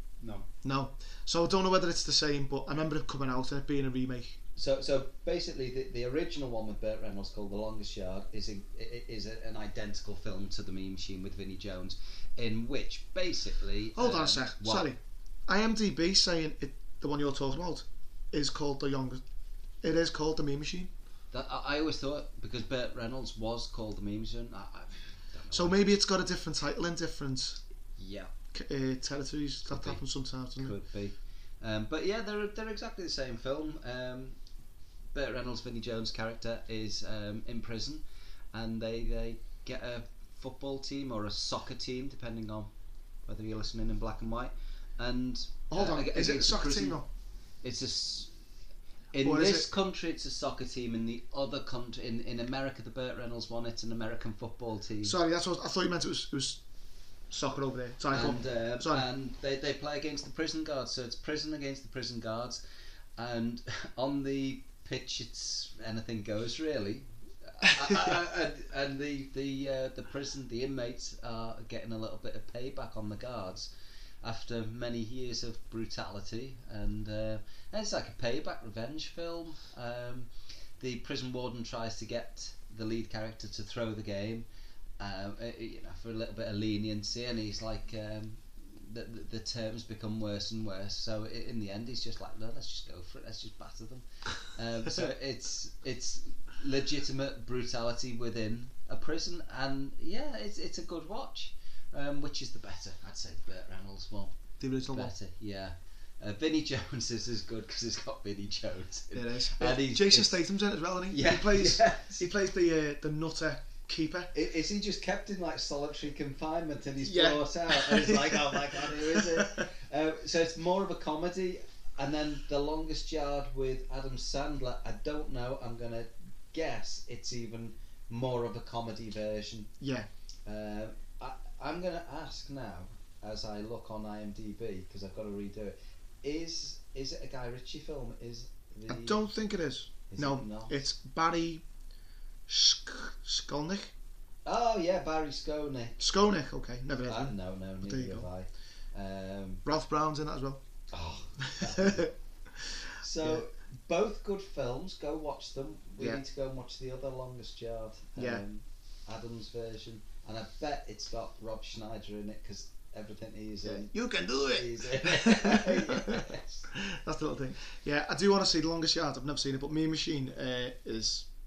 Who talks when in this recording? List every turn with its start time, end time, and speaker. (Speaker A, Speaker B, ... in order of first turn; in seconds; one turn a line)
Speaker A: 0.2-0.5
Speaker B: 0.6-4.4
Speaker A: 4.5-14.9
Speaker B: 13.9-19.2
Speaker B: 19.8-20.9
Speaker A: 21.3-25.8
Speaker B: 25.5-27.6
Speaker A: 28.0-28.3
Speaker B: 28.5-30.7
Speaker A: 29.6-30.0
Speaker A: 30.6-34.4
Speaker A: 35.1-42.7
Speaker A: 43.2-47.0
Speaker B: 45.7-47.0
Speaker A: 47.6-48.3
Speaker A: 49.1-55.1
Speaker B: 49.2-49.7
Speaker B: 55.0-56.6
Speaker B: 57.3-59.0
Speaker A: 58.1-62.6
Speaker A: 63.2-73.7
Speaker A: 74.2-84.5
Speaker A: 85.0-104.3
Speaker B: 104.6-105.1
Speaker A: 104.8-110.4
Speaker B: 109.1-114.3
Speaker A: 111.1-112.2
Speaker A: 114.3-129.7
Speaker B: 117.0-119.7
Speaker B: 129.8-130.1
Speaker A: 130.4-139.2
Speaker B: 138.9-141.6
Speaker A: 140.1-140.8
Speaker B: 142.5-143.9
Speaker A: 144.4-146.0
Speaker B: 146.0-148.3
Speaker A: 147.0-149.6
Speaker B: 149.6-150.6
Speaker A: 150.9-152.2
Speaker B: 151.5-153.4
Speaker A: 153.0-163.9
Speaker B: 158.2-158.4
Speaker B: 163.6-171.3
Speaker A: 164.5-166.7